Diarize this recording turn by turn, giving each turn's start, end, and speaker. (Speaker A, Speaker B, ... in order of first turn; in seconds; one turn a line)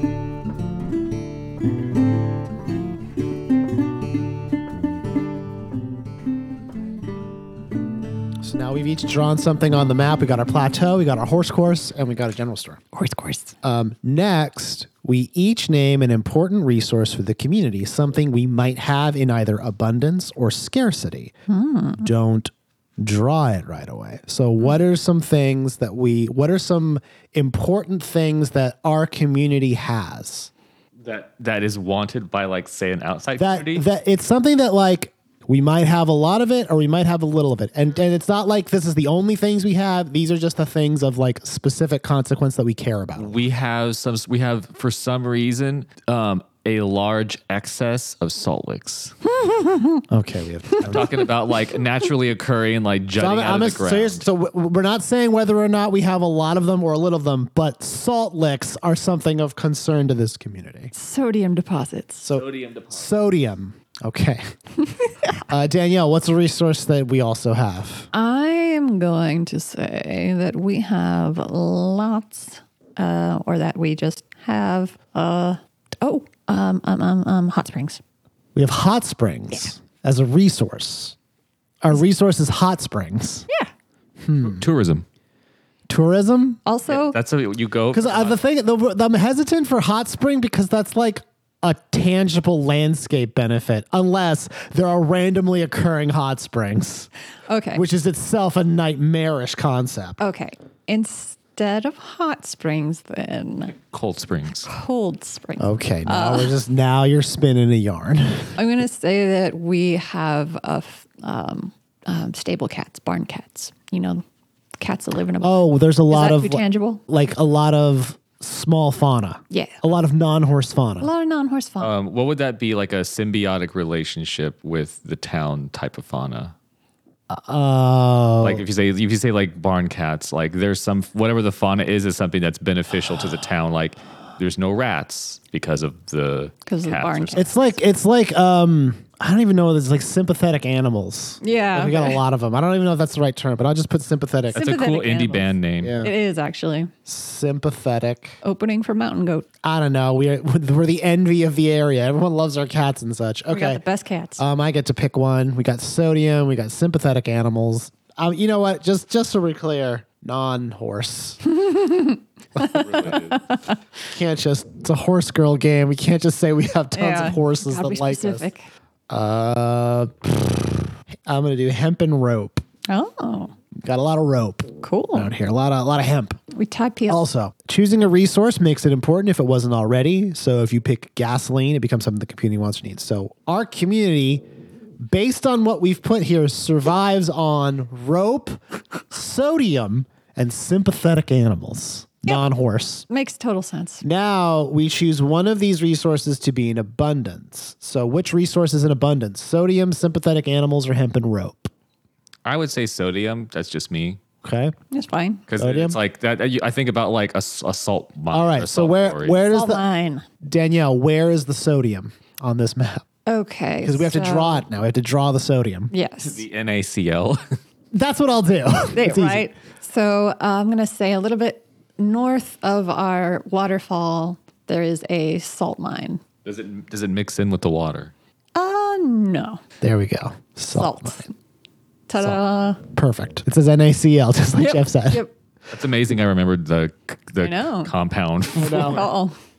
Speaker A: 8.4-12.8
Speaker B: 12.9-13.5
Speaker A: 13.6-21.3
Speaker B: 21.5-22.1
Speaker A: 22.0-30.5
Speaker C: 31.0-33.8
Speaker A: 33.4-43.5
Speaker C: 43.2-49.2
Speaker B: 49.3-50.0
Speaker A: 50.1-51.2
Speaker C: 50.8-54.2
Speaker A: 53.2-60.9
Speaker B: 60.9-62.3
Speaker A: 62.2-64.4
Speaker C: 62.3-63.1
Speaker A: 65.5-68.1
Speaker B: 68.1-78.0
Speaker A: 78.5-81.1
Speaker A: 81.8-83.5
Speaker A: 84.2-84.6
Speaker C: 84.4-85.0
Speaker A: 85.9-86.6
Speaker B: 86.7-87.2
Speaker C: 86.9-88.4
Speaker A: 87.9-97.1
Speaker B: 97.5-97.8
Speaker A: 97.7-100.2
Speaker B: 100.2-103.7
Speaker C: 103.8-104.7
Speaker B: 104.6-106.5
Speaker A: 105.6-108.5
Speaker B: 108.6-114.2
Speaker B: 114.8-117.0
Speaker A: 115.4-121.1
Speaker B: 119.5-119.8
Speaker B: 121.0-121.9
Speaker C: 121.8-126.5
Speaker A: 127.3-128.6
Speaker C: 128.4-137.4
Speaker B: 136.7-137.8
Speaker A: 137.3-144.7
Speaker B: 141.4-142.2
Speaker B: 144.5-146.9
Speaker C: 144.5-146.0
Speaker A: 145.8-146.1
Speaker A: 147.1-148.4
Speaker B: 148.4-149.4
Speaker A: 149.6-153.8
Speaker B: 153.5-154.4
Speaker A: 154.4-161.4
Speaker B: 161.4-163.8
Speaker A: 162.6-163.2
Speaker C: 162.7-163.4
Speaker A: 164.1-168.5
Speaker B: 166.9-168.7
Speaker A: 169.1-172.6
Speaker B: 172.9-173.5
Speaker A: 173.8-176.4
Speaker B: 174.8-175.3
Speaker B: 176.5-177.2
Speaker A: 177.1-184.4
Speaker A: 185.0-188.6
Speaker A: 189.1-193.0
Speaker B: 193.1-194.0
Speaker A: 194.0-201.7
Speaker C: 202.4-204.2
Speaker A: 204.4-204.7
Speaker B: 204.9-205.4
Speaker C: 205.5-209.4
Speaker A: 205.6-206.0
Speaker A: 208.3-209.8
Speaker B: 209.4-210.2
Speaker A: 210.4-213.0
Speaker B: 213.2-214.6
Speaker A: 213.8-215.9
Speaker B: 215.9-216.4
Speaker C: 216.2-217.4
Speaker A: 217.9-219.5
Speaker B: 218.9-226.2
Speaker C: 226.4-228.1
Speaker B: 228.5-229.6
Speaker A: 229.8-231.2
Speaker B: 230.7-231.3
Speaker B: 232.1-232.8
Speaker A: 232.2-235.2
Speaker B: 234.5-235.3
Speaker C: 235.7-239.1
Speaker B: 237.4-237.9
Speaker A: 238.6-239.0
Speaker B: 238.6-239.3